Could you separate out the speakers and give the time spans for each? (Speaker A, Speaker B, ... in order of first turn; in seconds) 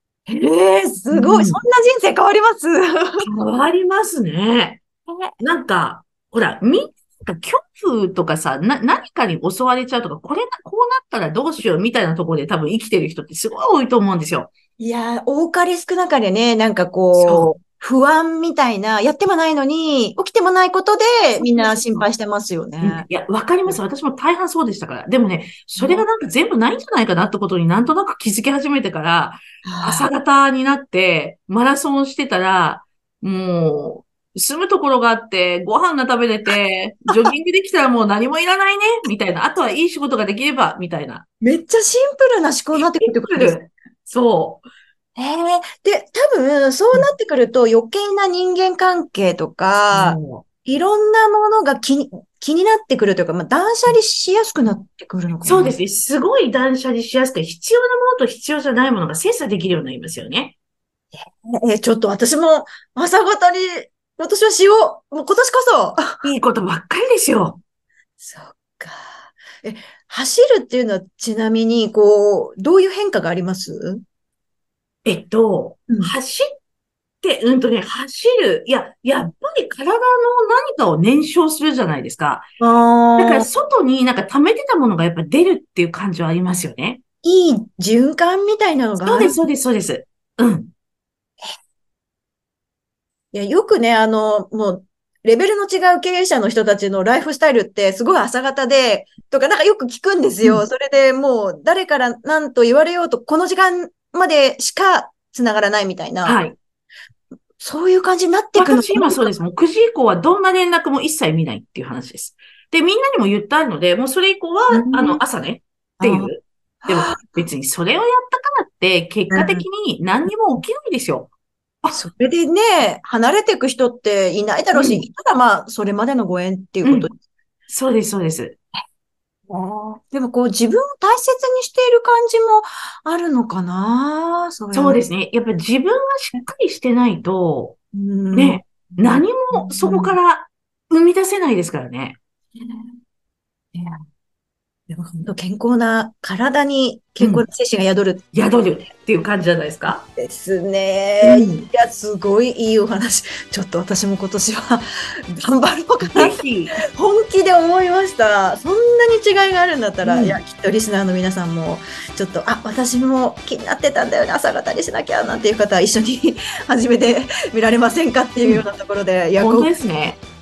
Speaker A: 0.3-3.2, 5.1-5.3, 14.8-23.1, 25.8-26.1, 29.6-30.1, 41.4-43.6, 45.2-55.8, 61.2-66.2, 68.2-74.0, 75.9-76.1, 82.6-83.5, 87.2-89.4, 93.3-106.4, 107.6-109.4, 114.7-115.2, 116.0-116.3, 116.8-117.4, 119.3-119.6, 121.9-127.2, 129.5-135.0, 137.9-140.2, 142.6-142.9, 143.7-144.0, 144.9-148.2, 150.2-156.4, 156.9-169.7
Speaker B: 1.1-1.6, 3.2-4.8, 5.4-14.5, 17.1-17.5, 21.4-22.1, 22.8-41.2, 42.7-44.6, 49.9-50.5, 55.4-60.6, 66.2-67.6, 75.0-76.5, 77.2-82.5, 83.2-87.0, 89.0-90.7, 106.2-106.6, 108.5-121.3, 124.7-125.0, 126.8-127.1, 127.7-128.6, 134.7-137.8, 138.3-142.2, 147.2-147.5, 148.3-150.1, 151.2-151.7, 156.1-156.8, 160.0-160.4, 169.4-170.2